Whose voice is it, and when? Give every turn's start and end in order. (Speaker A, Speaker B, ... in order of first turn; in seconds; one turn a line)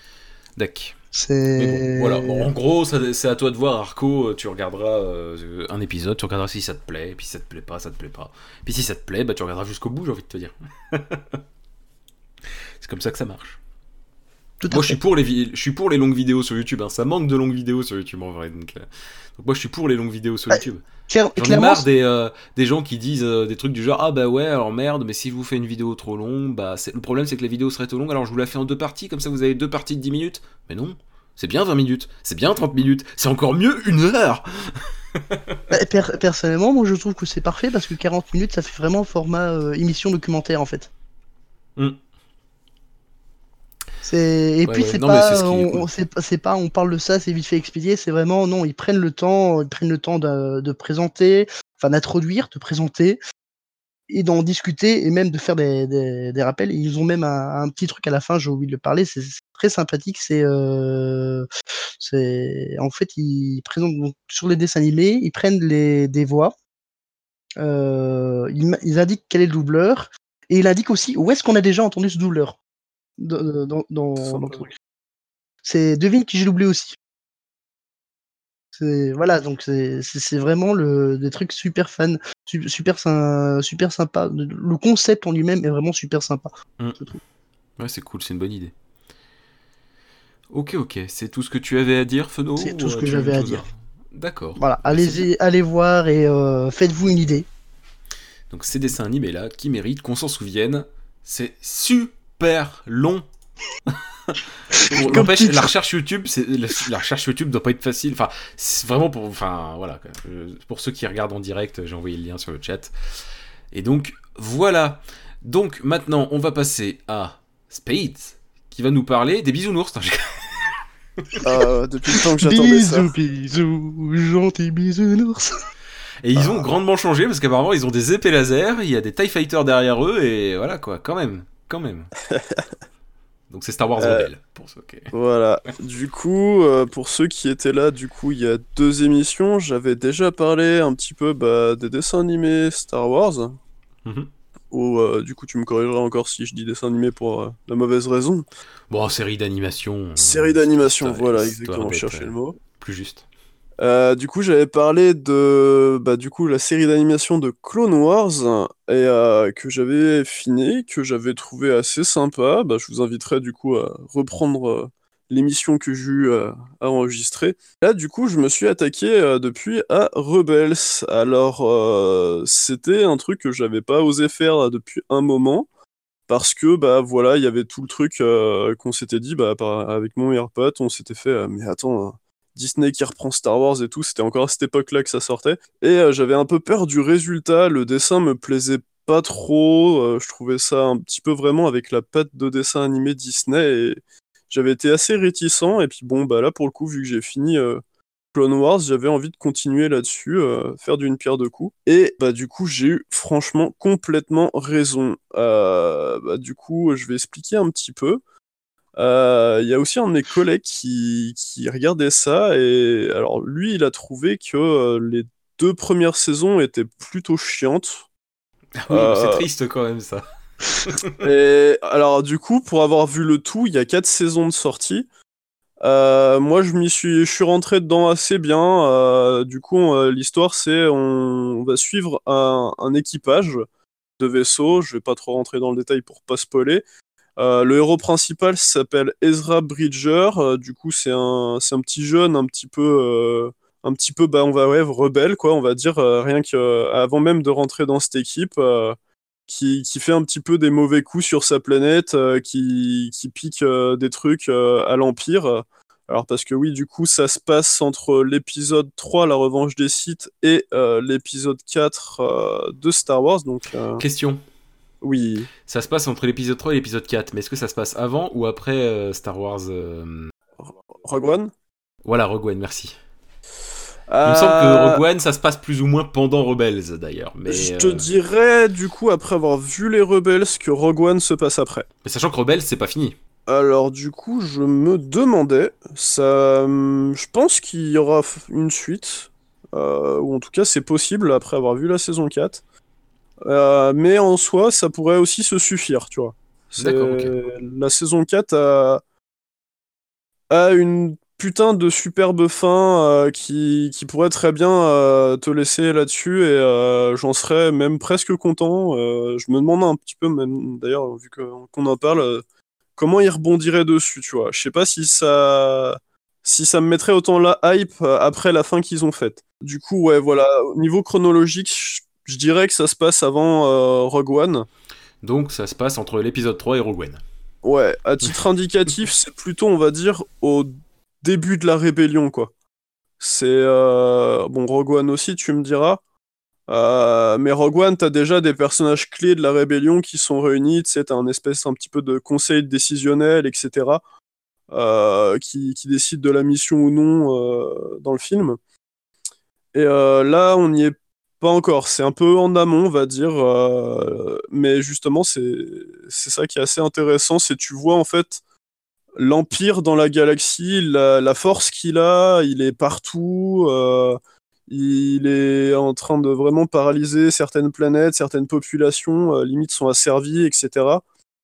Speaker A: 0.6-0.9
Speaker B: 1.1-2.5
Speaker A: 1.6-11.4
Speaker A: 12.8-13.6
Speaker B: 14.6-15.0
Speaker A: 14.7-20.8
Speaker B: 20.5-21.8
Speaker A: 21.4-35.6
Speaker B: 35.7-40.9
Speaker B: 44.0-53.2
Speaker A: 44.7-45.9
Speaker B: 54.1-61.5
Speaker B: 62.0-66.5
Speaker B: 67.6-72.6
Speaker B: 73.2-74.7
Speaker C: 74.2-74.6
Speaker B: 75.6-77.0
Speaker B: 78.7-86.5
Speaker A: 86.8-87.1
Speaker A: 87.8-88.7
Speaker A: 90.5-95.2
Speaker B: 92.6-93.6
Speaker B: 94.6-97.5
Speaker A: 98.5-103.2
Speaker A: 103.9-112.9
Speaker B: 104.7-105.7
Speaker A: 113.7-120.7
Speaker C: 121.4-123.1
Speaker B: 122.4-125.5
Speaker A: 126.2-132.1
Speaker C: 126.3-126.7
Speaker C: 132.3-132.7
Speaker A: 133.5-135.1
Speaker C: 134.0-134.3
Speaker C: 135.1-143.6
Speaker A: 144.0-144.3
Speaker C: 144.7-148.4
Speaker A: 148.9-153.2
Speaker C: 150.2-152.6
Speaker C: 153.8-175.7
Speaker C: 176.3-197.8
Speaker C: 198.3-208.2
Speaker C: 208.9-218.0
Speaker A: 218.8-220.2
Speaker C: 218.9-219.4
Speaker A: 220.8-221.2
Speaker C: 221.2-225.1
Speaker C: 225.8-233.6
Speaker C: 234.2-236.8
Speaker C: 237.4-249.0
Speaker C: 249.5-264.0
Speaker A: 264.0-264.4
Speaker C: 265.0-265.5
Speaker A: 265.7-270.3
Speaker C: 270.6-271.5
Speaker A: 272.0-272.9
Speaker C: 274.1-275.0
Speaker A: 274.2-278.1
Speaker C: 277.5-281.9
Speaker A: 282.0-283.2
Speaker C: 283.5-292.6
Speaker C: 293.4-299.0
Speaker A: 296.8-297.4
Speaker C: 300.5-312.4
Speaker C: 313.0-324.7
Speaker A: 325.2-327.2
Speaker C: 327.6-330.7
Speaker C: 331.2-332.5
Speaker C: 333.2-336.0
Speaker C: 336.7-344.0
Speaker C: 344.7-348.6
Speaker C: 349.7-358.4
Speaker C: 359.2-371.0